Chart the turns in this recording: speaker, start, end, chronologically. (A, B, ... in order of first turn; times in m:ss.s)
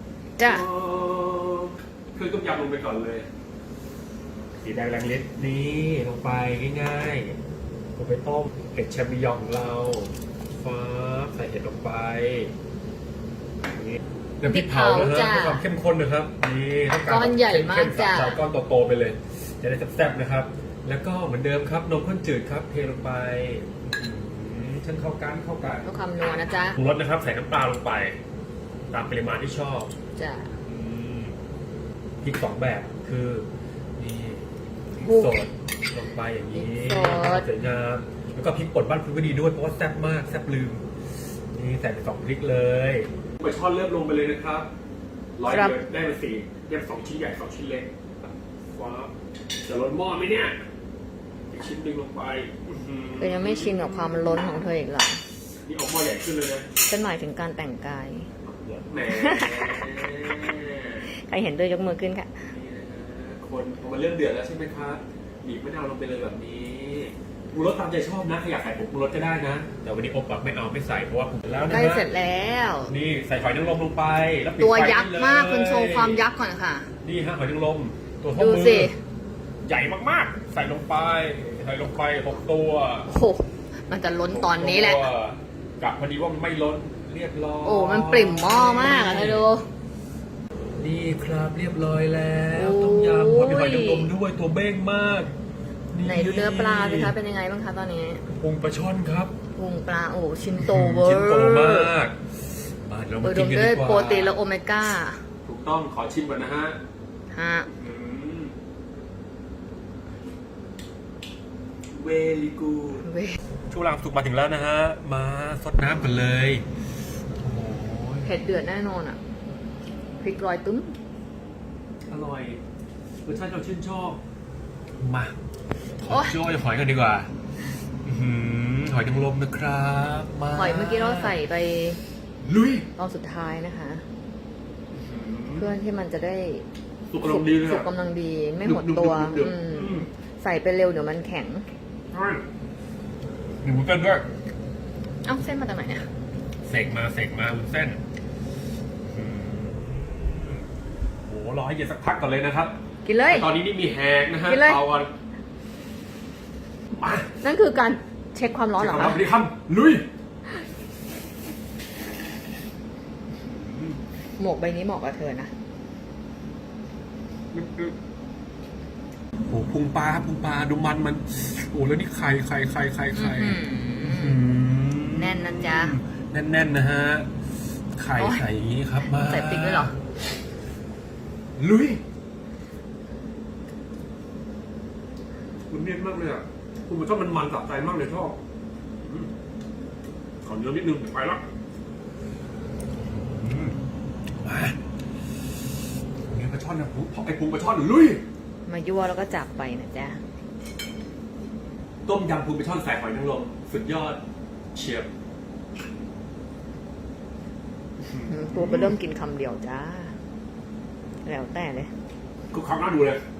0:00.4-0:00.6 A
0:00.4-0:03.3 B
0:04.6-0:07.4 B
0:08.0-0:12.5 B
0:13.9-0:25.9 B
0:14.4-0:15.6 A
0:17.0-0:18.4 A
0:25.8-0:26.8 A
0:26.7-0:28.2 B
0:28.9-0:29.9 B
0:30.2-0:30.5 A
0:30.7-0:31.3 B
0:32.2-0:33.5 B
0:34.0-0:34.4 B
0:35.0-0:40.8 B
0:35.0-0:35.4 A
0:36.5-0:37.5 A
0:41.5-0:44.7 B
0:45.4-0:49.1 B
0:45.5-0:45.8 A
0:49.6-0:50.6 B
0:51.5-0:54.6 B
0:53.2-0:55.2 A
0:55.6-0:56.7 B
0:56.8-0:58.3 A
0:58.4-1:01.1 B
0:59.1-0:59.7 A
1:01.1-1:02.5 A
1:02.4-1:12.1 B
1:11.7-1:12.9 A
1:12.9-1:16.2 B
1:14.6-1:16.9 A
1:17.0-1:18.9 B
1:18.4-1:19.0 A
1:19.6-1:23.1 B
1:23.1-1:25.1 A
1:24.3-1:29.4 B
1:27.6-1:29.7 A
1:30.8-1:35.3 B
1:32.5-1:34.1 A
1:35.9-1:37.2 B
1:36.0-1:38.2 A
1:38.3-1:39.3 B
1:39.5-1:41.9 A
1:40.6-1:44.4 B
1:43.2-1:45.2 A
1:45.4-1:46.8 B
1:47.3-1:47.7 A
1:47.7-1:48.6 B
1:51.9-1:53.1 B
1:53.0-1:53.4 A
1:53.7-1:56.6 B
1:57.4-1:58.3 B
1:58.2-1:59.2 A
2:00.2-2:01.0 A
2:02.1-2:02.6 B
2:03.3-2:04.2 B
2:05.0-2:05.4 B
2:06.0-2:07.3 B
2:06.1-2:06.4 A
2:08.0-2:11.4 B
2:10.5-2:12.0 A
2:12.4-2:12.9 B
2:13.0-2:14.0 A
2:14.9-2:15.8 B
2:15.6-2:16.7 A
2:17.1-2:17.9 B
2:17.2-2:21.7 A
2:18.6-2:20.1 B
2:22.1-2:22.4 B
2:23.6-2:24.3 B
2:25.2-2:26.1 A
2:26.6-2:28.0 B
2:29.1-2:29.8 B
2:31.3-2:32.8 B
2:33.0-2:33.5 A
2:33.3-2:35.1 B
2:34.4-2:34.8 A
2:36.9-2:37.3 B
2:37.4-2:39.2 A
2:38.8-2:40.1 B
2:43.4-2:44.0 B
2:44.4-2:45.5 A
2:47.5-2:48.0 B
2:49.5-2:57.3 B
2:53.1-2:54.4 A
2:55.1-2:56.0 A
2:58.0-2:59.9 B
2:58.2-2:58.4 A
2:59.0-3:00.0 A
3:01.6-3:02.0 B
3:05.7-3:08.4 B
3:09.0-3:09.3 B
3:10.4-3:11.4 B
3:13.1-3:13.8 B
3:14.4-3:14.8 B
3:16.3-3:18.2 B
3:18.7-3:20.2 A
3:22.1-3:24.2 B
3:24.7-3:25.1 B
3:28.1-3:30.2 A
3:28.1-3:29.0 B
3:31.2-3:31.9 A
3:32.5-3:33.2 B